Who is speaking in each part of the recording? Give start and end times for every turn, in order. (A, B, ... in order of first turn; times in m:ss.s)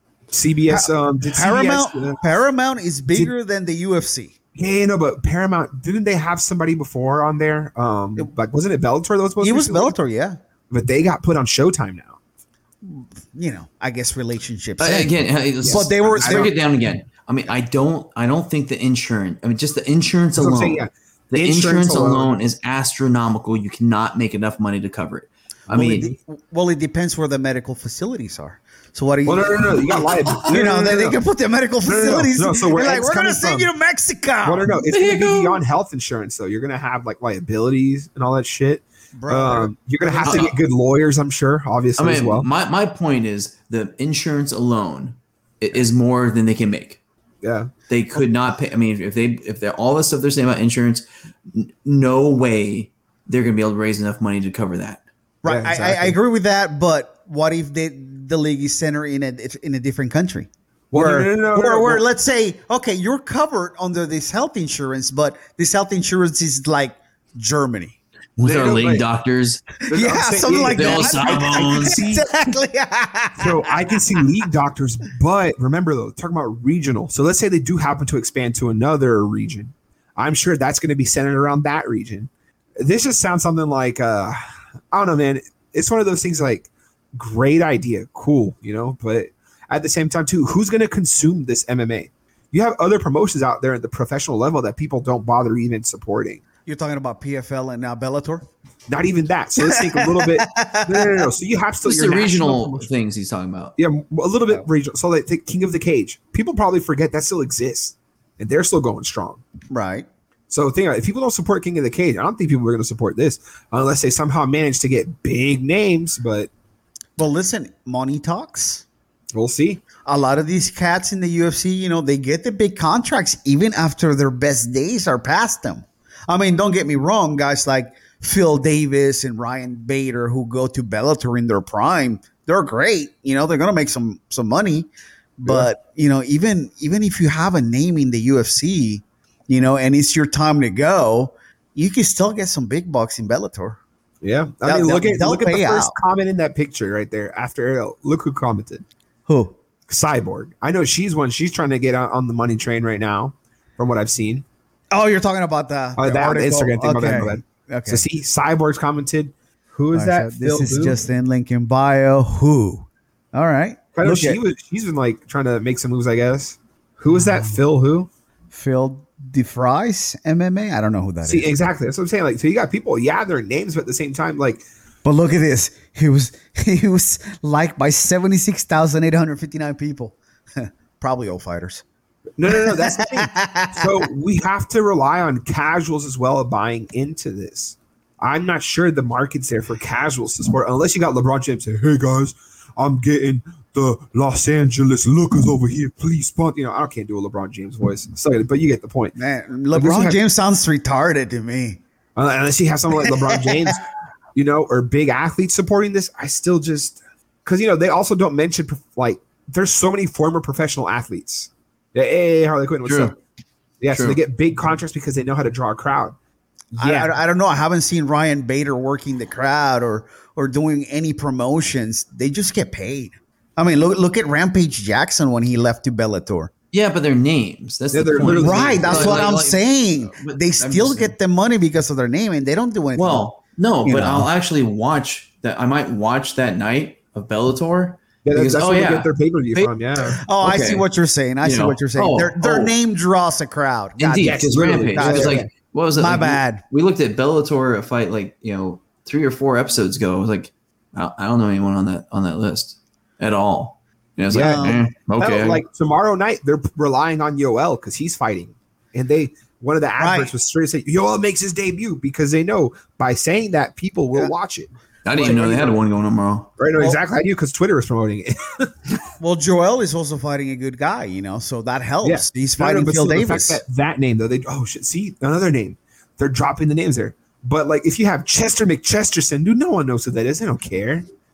0:00.3-0:02.2 A
0:00.7-0:04.4 B
0:04.6-0:10.0 A
0:09.4-0:10.4 B
0:10.7-0:12.2 A
0:12.8-0:15.1 B
0:14.8-0:20.8 C
0:15.6-0:16.5 A
0:15.7-0:16.5 B
0:20.4-0:22.3 A
0:21.3-0:26.1 C
0:25.7-0:34.8 B
0:29.3-0:31.2 A
0:31.8-0:33.7 A
0:34.4-0:42.5 A
0:34.9-0:35.6 C
0:39.2-0:40.5 B
0:40.2-0:40.6 C
0:42.0-0:47.0 C
0:47.4-0:47.7 A
0:47.9-0:55.0 C
0:55.4-1:08.0 B
0:55.4-0:56.2 A
1:00.9-1:02.0 A
1:08.4-1:09.6 C
1:08.4-1:09.0 A
1:09.9-1:14.2 B
1:09.9-1:12.2 A
1:10.8-1:12.1 C
1:13.4-1:24.4 A
1:24.9-1:36.4 A
1:36.7-1:38.5 B
1:38.9-1:42.9 A
1:39.6-1:41.3 B
1:41.8-1:43.8 C
1:43.8-1:49.4 A
1:49.7-1:50.1 B
1:50.5-1:56.5 A
1:57.2-1:58.8 B
1:59.3-1:59.8 A
2:00.0-2:23.8 B
2:24.2-2:28.8 A
2:24.6-2:25.9 B
2:29.3-2:29.6 B
2:29.9-2:34.4 A
2:34.9-2:38.0 B
2:36.0-2:41.0 A
2:39.9-2:44.4 B
2:44.0-2:48.1 A
2:48.5-2:51.5 B
2:51.2-2:54.6 A
2:55.0-3:01.8 B
3:02.4-3:19.2 A
3:02.5-3:04.1 B
3:19.2-3:21.8 B
3:19.7-3:20.2 A
3:22.2-3:33.2 A
3:23.0-3:23.7 B
3:32.9-3:33.2 C
3:33.8-3:36.2 A
3:33.9-3:34.2 C
3:36.7-3:37.2 A
3:36.8-3:46.5 B
3:46.7-3:51.2 C
3:47.9-3:49.3 A
3:48.3-3:53.3 B
3:53.0-4:00.8 C
3:53.8-3:54.3 B
3:58.2-4:00.2 A
4:00.1-4:06.6 B
4:01.4-4:02.7 C
4:04.0-4:15.6 C
4:04.2-4:05.5 A
4:14.3-4:25.8 A
4:14.3-4:14.8 B
4:20.0-4:20.3 B
4:25.1-4:26.5 C
4:26.6-4:28.9 A
4:29.2-4:33.6 B
4:32.0-4:41.1 A